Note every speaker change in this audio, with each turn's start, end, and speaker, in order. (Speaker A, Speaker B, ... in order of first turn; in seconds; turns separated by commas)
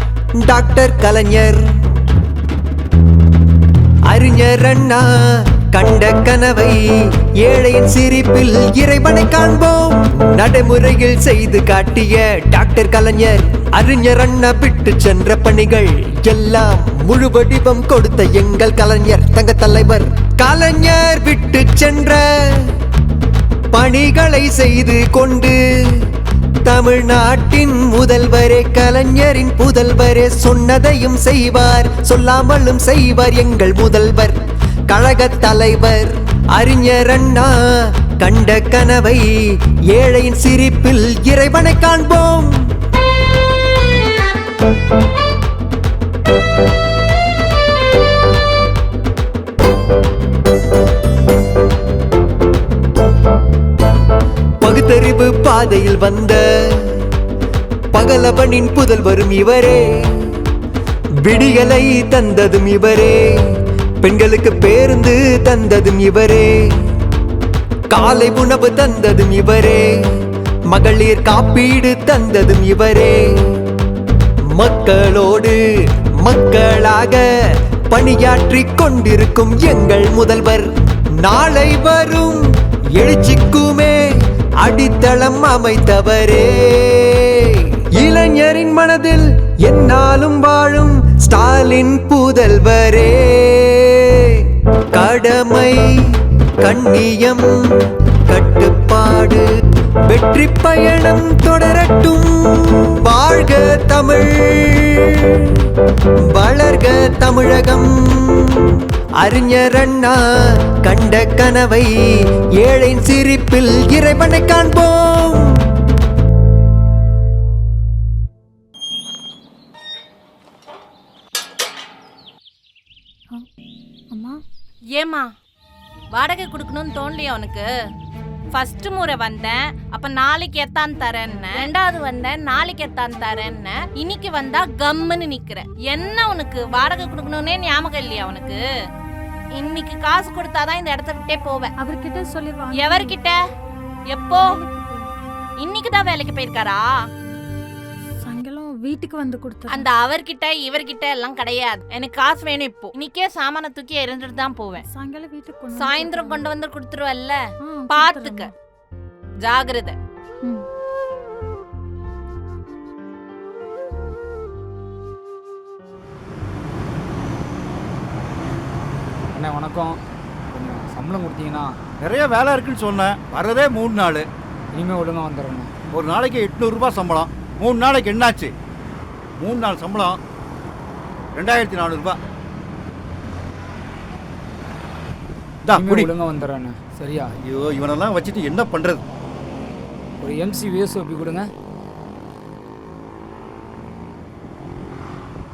Speaker A: 0.4-1.7, Speaker A: 4.1-6.8, Speaker A: 7.4-22.7, Speaker A: 23.7-26.1, Speaker A: 26.6-37.5, Speaker A: 38.2-39.3, Speaker A: 39.9-42.7, Speaker A: 54.6-57.0, Speaker A: 57.9-60.2, Speaker A: 61.2-63.3, Speaker A: 64.0-66.6, Speaker A: 67.9-69.9, Speaker A: 70.7-73.3, Speaker A: 74.5-75.6, Speaker A: 76.2-77.2, Speaker A: 77.9-82.5, Speaker A: 83.0-84.0, Speaker A: 84.6-95.8, Speaker A: 96.6-97.5, Speaker A: 98.3-99.5, Speaker A: 100.1-105.7, Speaker A: 106.3-110.2, Speaker A: 110.8-111.9, Speaker A: 112.6-115.6, Speaker B: 124.1-124.4, Speaker C: 124.9-125.3, Speaker C: 126.1-127.7, Speaker C: 128.5-138.6, Speaker C: 139.6-141.7, Speaker B: 141.8-143.2, Speaker C: 142.8-143.4, Speaker C: 144.1-144.5, Speaker B: 144.4-145.1, Speaker C: 145.6-146.9, Speaker B: 148.2-149.9, Speaker C: 149.7-154.8, Speaker B: 154.8-156.5, Speaker C: 155.8-157.4, Speaker B: 157.6-158.5, Speaker C: 157.9-158.5, Speaker C: 159.4-160.0, Speaker D: 169.3-170.0, Speaker D: 170.5-171.7, Speaker E: 172.0-174.3, Speaker D: 174.8-175.8, Speaker E: 175.9-178.5, Speaker E: 179.4-180.2, Speaker E: 181.4-182.2, Speaker E: 185.7-186.1, Speaker D: 185.8-187.3, Speaker E: 187.4-189.0, Speaker D: 190.2-191.5